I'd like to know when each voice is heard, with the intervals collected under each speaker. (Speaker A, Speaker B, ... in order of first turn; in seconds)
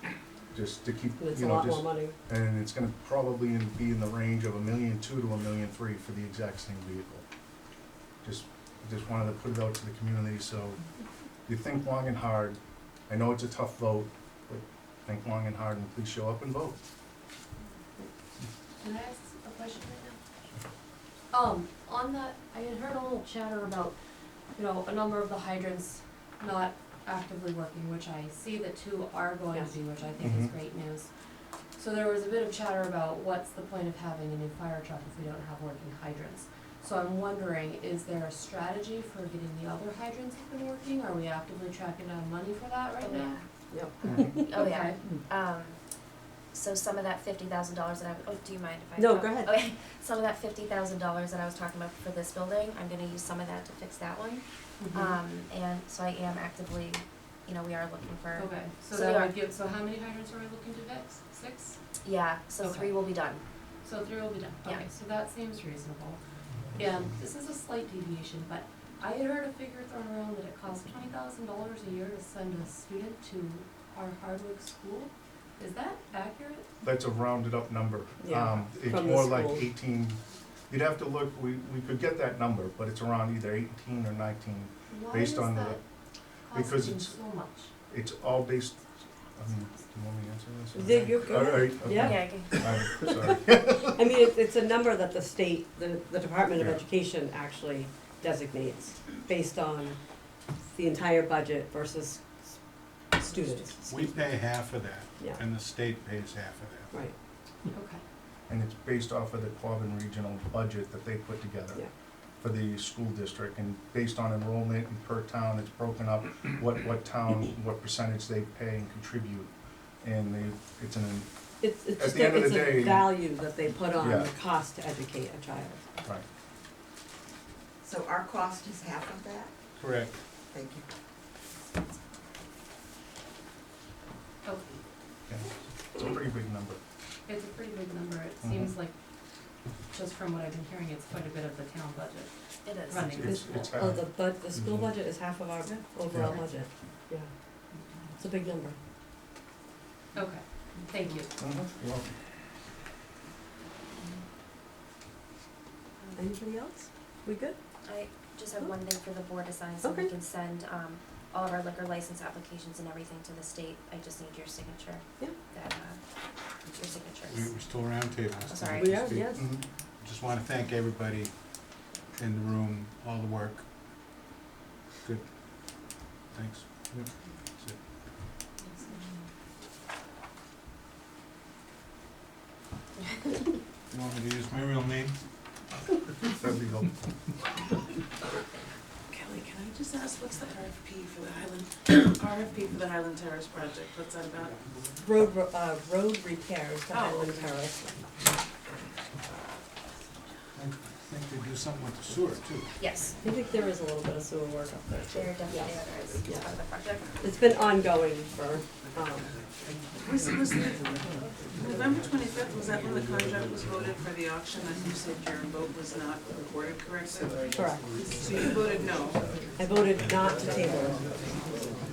Speaker A: 0.5-7.2, 8.2-10.8, 11.5-16.8, 30.2-30.5, 76.8-85.8, 86.5-87.2, 87.9-94.1, 108.5-111.8, 112.4-119.5, 120.0-121.3, 122.0-123.2, 124.0-124.3, 135.3-136.8, 138.4-138.7, 143.0-144.8, 146.1-146.4, 151.4-152.1, 169.3-169.6, 186.3-186.9
Speaker B: 1.2-2.1, 43.7-45.2, 49.0-49.5, 78.2-79.7, 90.8-93.2, 93.9-100.0, 100.7-102.6, 103.1-104.2, 121.6-125.8, 143.8-147.3, 148.2-148.8, 156.2-157.6, 159.8-160.1, 168.8-169.5, 195.0-198.0, 203.2-206.5, 207.2-209.3, 217.5-217.9, 219.6-221.0
Speaker C: 18.8-20.2, 21.3-23.9, 24.6-31.1, 31.8-43.4, 44.6-45.0, 54.8-55.2, 58.4-61.8, 62.6-62.9, 63.8-66.2, 66.8-76.7, 84.9-85.8, 86.5-87.7, 107.7-108.0, 134.4-134.8, 137.3-138.9, 139.9-142.3, 142.9-143.7, 150.1-151.3
Speaker D: 43.0-43.4, 44.0-45.8, 46.5-59.3, 62.0-63.4, 91.9-92.6, 142.7-143.4, 157.8-166.0, 166.6-167.5, 168.5-169.2, 202.8-203.2, 205.1-207.1
Speaker E: 103.8-106.9, 129.8-130.2, 167.3-171.5, 172.2-173.7, 176.3-177.1, 183.9-185.2, 200.6-202.7, 220.0-220.2
Speaker F: 127.8-129.5, 130.5-130.8
Speaker G: 189.1-194.6, 196.9-197.6, 210.0-217.5, 218.1-219.2